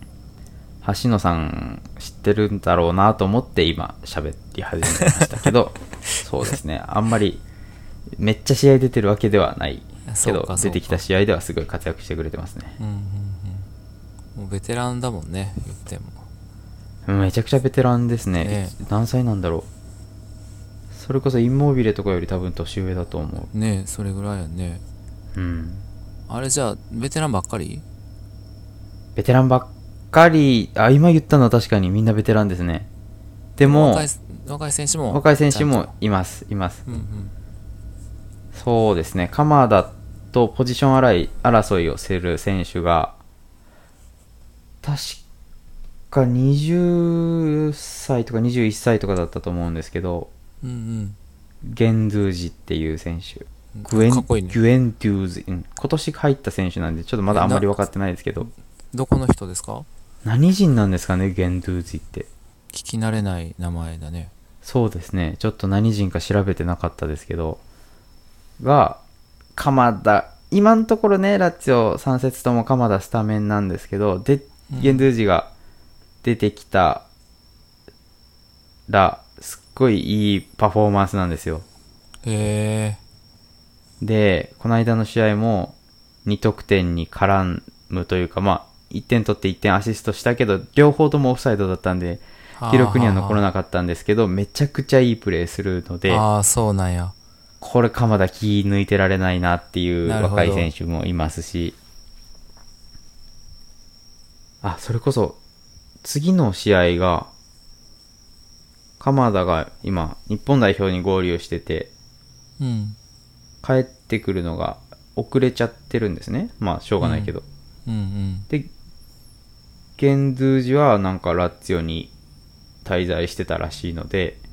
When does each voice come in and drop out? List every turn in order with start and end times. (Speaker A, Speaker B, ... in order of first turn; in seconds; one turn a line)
Speaker A: 0.8-7.4
Speaker B: 5.2-5.5
Speaker A: 8.2-12.8
Speaker B: 10.1-11.0
Speaker B: 12.8-13.7
Speaker B: 14.3-16.3
Speaker A: 17.1-19.7
Speaker B: 18.4-18.8
Speaker A: 20.9-23.5
Speaker B: 23.5-24.8
Speaker A: 25.4-25.9
Speaker B: 26.3-27.9
Speaker A: 29.2-32.9
Speaker A: 33.6-34.1
Speaker B: 33.6-35.9
Speaker A: 35.1-36.8
Speaker B: 36.9-37.3
Speaker A: 38.5-43.2
Speaker A: 44.8-45.2
Speaker A: 46.1-50.3
Speaker B: 50.6-51.2
Speaker A: 51.6-58.5
Speaker B: 53.8-54.6
Speaker B: 57.3-57.7
Speaker B: 58.9-59.9
Speaker A: 60.2-62.3
Speaker B: 62.7-64.3
Speaker A: 64.6-67.6
Speaker A: 68.6-69.0
Speaker A: 69.5-75.5
Speaker B: 74.7-75.1
Speaker A: 76.2-77.0
Speaker A: 78.9-81.7
Speaker B: 82.2-83.0
Speaker A: 84.0-96.2
Speaker B: 92.6-93.4
Speaker B: 96.1-97.2
Speaker A: 97.6-101.8
Speaker B: 100.0-100.7
Speaker A: 104.6-105.4
Speaker A: 106.0-107.3
Speaker A: 109.0-111.9
Speaker B: 112.6-113.0
Speaker A: 113.6-117.4
Speaker B: 117.0-117.3
Speaker B: 117.9-118.5
Speaker A: 120.0-122.1
Speaker A: 122.8-124.4